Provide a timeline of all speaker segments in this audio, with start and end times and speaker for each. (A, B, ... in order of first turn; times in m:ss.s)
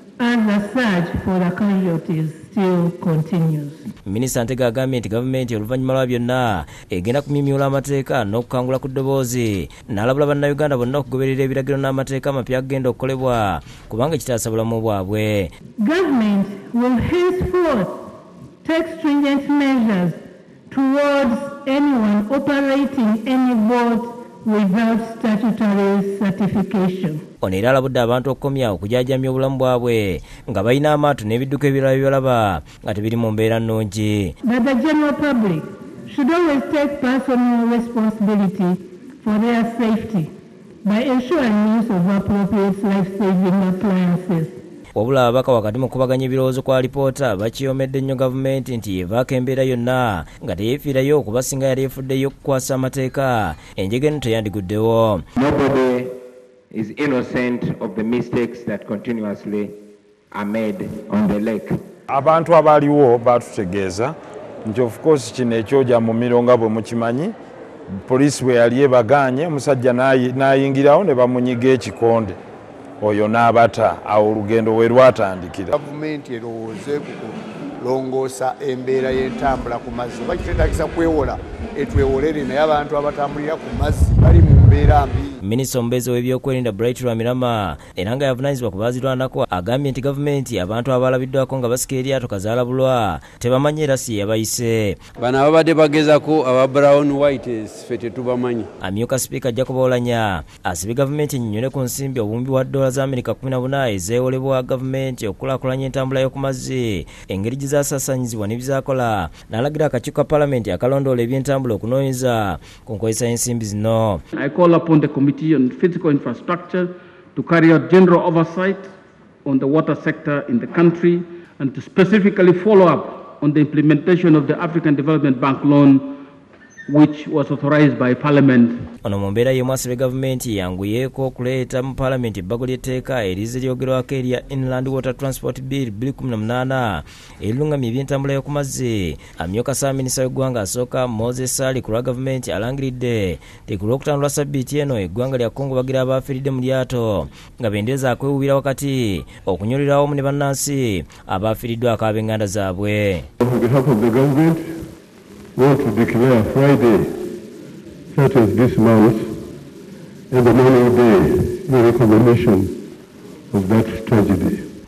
0:00.2-0:03.8 A
0:04.1-0:15.5 B
0:15.8-0:18.0 A
0:18.6-0:20.2 A
0:20.7-0:27.2 A
0:27.4-0:34.3 B
0:34.4-0:40.3 A
0:40.8-0:44.6 A
0:45.0-0:55.2 B
0:55.4-0:56.1 C
0:56.7-0:59.7 C
1:00.3-1:01.7 C
1:02.1-1:07.3 D
1:08.0-1:12.4 D
1:13.0-1:15.8 D
1:15.8-1:25.4 E
1:25.4-1:35.0 B
1:35.2-1:38.7 F
1:38.8-1:54.2 B
1:54.3-1:58.9 G
1:59.4-2:06.1 G
2:06.9-2:08.8 G
2:09.0-2:33.3 B
2:33.4-2:34.8 H
2:35.6-2:37.3 H
2:38.1-2:39.4 H
2:40.3-2:42.8 H
2:43.5-2:44.7 H